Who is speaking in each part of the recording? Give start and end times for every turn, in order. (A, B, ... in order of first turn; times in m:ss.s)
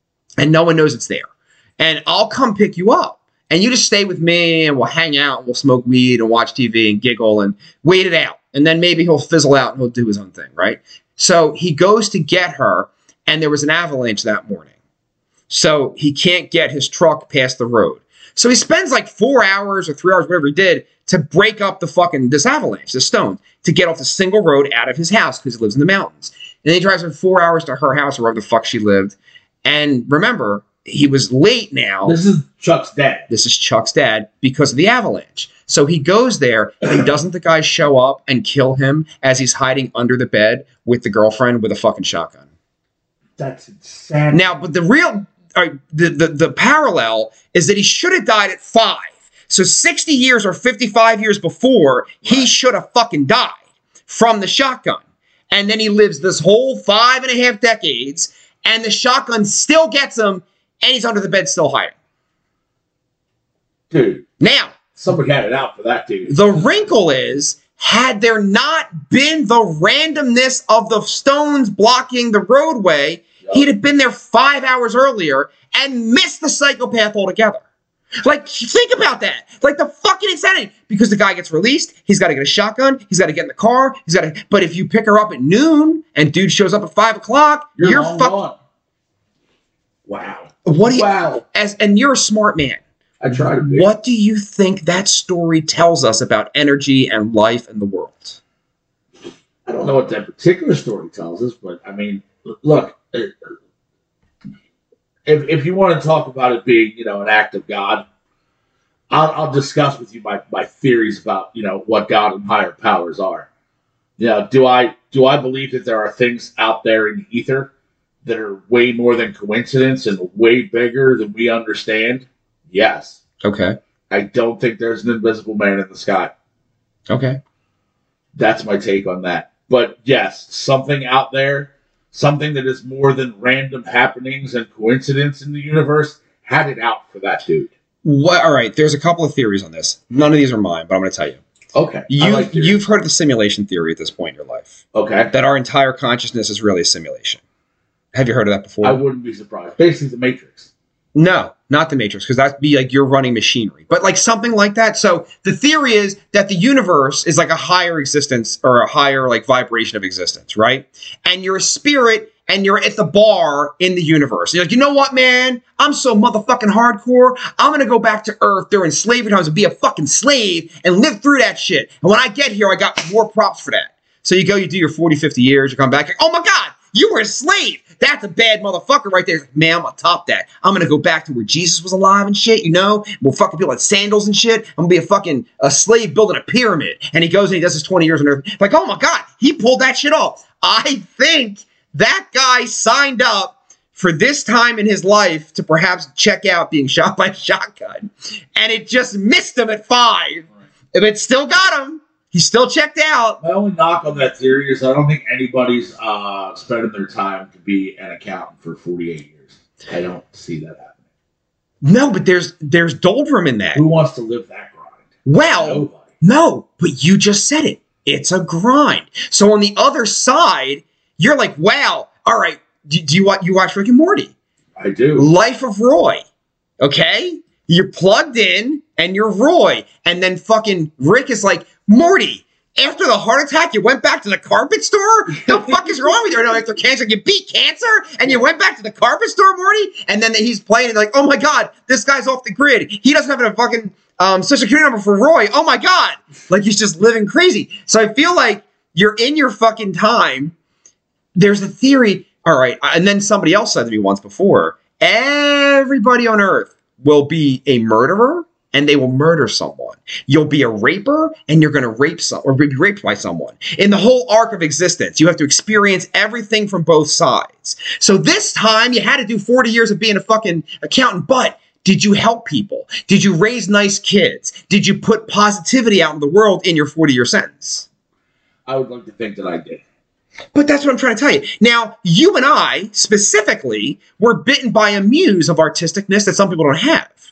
0:00.4-0:14.7 A
0:15.5-0:32.2 A
0:32.0-0:33.3 B
0:33.3-0:42.4 A
0:43.4-0:44.5 B
0:44.3-1:01.9 A
1:03.9-1:04.2 B
1:04.4-1:04.8 A
1:04.9-1:06.9 B
1:06.3-1:17.6 A
1:18.2-1:28.4 A
1:27.8-1:28.6 B
1:30.1-1:31.4 B
1:30.6-1:32.8 A
1:33.2-1:33.9 B
1:33.5-1:38.4 A
1:39.6-1:43.5 B
1:45.2-1:48.0 B
1:49.1-1:53.5 B
1:54.2-1:57.7 B
1:58.2-2:03.2 B
2:03.4-2:03.8 A
2:04.1-2:06.3 B
2:07.1-2:07.4 A
2:08.4-2:17.7 B
2:18.0-2:21.4 A
2:21.7-2:22.8 B
2:22.1-2:24.8 A
2:24.9-2:25.3 B
2:25.3-2:27.4 A
2:28.1-2:29.0 A
2:28.8-2:30.7 B
2:31.1-3:23.4 A
3:23.4-3:31.0 B
3:31.8-3:33.8 A
3:33.7-3:36.0 B
3:35.2-3:44.3 A
3:44.8-3:45.3 B
3:45.2-3:46.2 A
3:46.8-4:10.5 A
3:55.4-3:55.9 B
4:11.3-4:37.8 A
4:38.7-4:39.8 B
4:40.5-4:47.1 A